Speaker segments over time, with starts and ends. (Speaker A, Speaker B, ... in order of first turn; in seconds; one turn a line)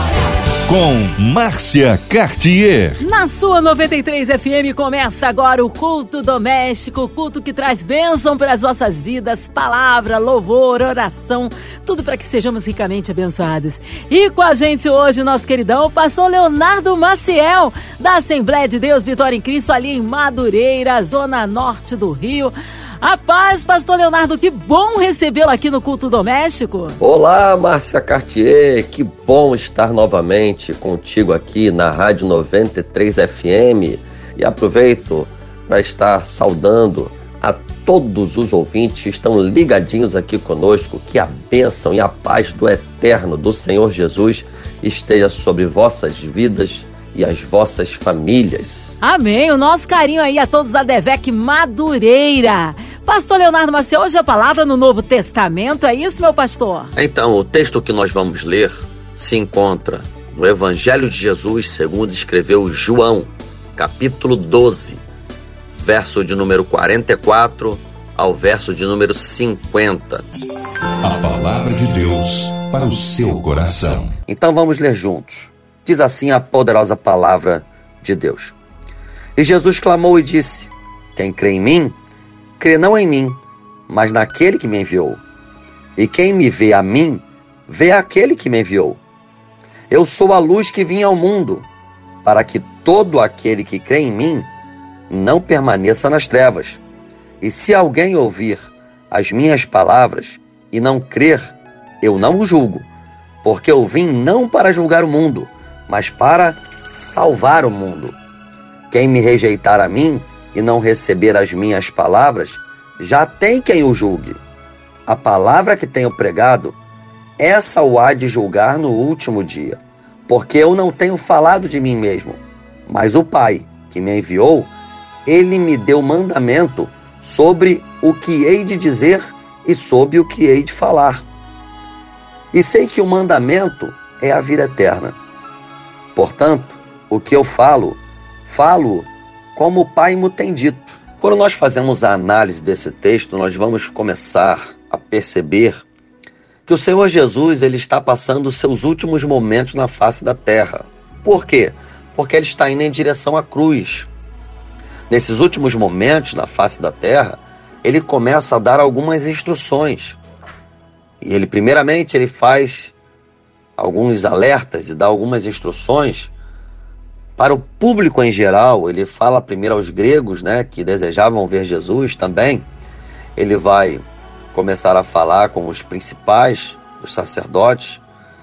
Speaker A: 0.7-3.0
Speaker B: 3.0-27.0
Speaker C: 27.0-49.0
Speaker B: 49.0-56.9
Speaker C: 56.9-65.0
Speaker C: 65.7-70.2
Speaker A: 71.0-74.1
Speaker C: 74.3-78.5
Speaker C: 79.3-82.0
Speaker C: 82.6-85.2
Speaker C: 86.0-89.0
Speaker C: 89.9-91.7
Speaker C: 92.2-94.5
Speaker C: 95.1-96.8
Speaker C: 97.4-102.9
Speaker C: 103.4-108.1
Speaker C: 108.9-114.4
Speaker C: 115.1-116.8
Speaker C: 117.4-124.7
Speaker C: 125.3-131.3
Speaker C: 132.5-135.2
Speaker C: 136.2-145.8
Speaker C: 146.7-154.1
Speaker C: 155.1-160.2
Speaker C: 161.2-162.9
Speaker C: 163.8-166.3
Speaker C: 167.4-172.7
Speaker C: 173.3-178.0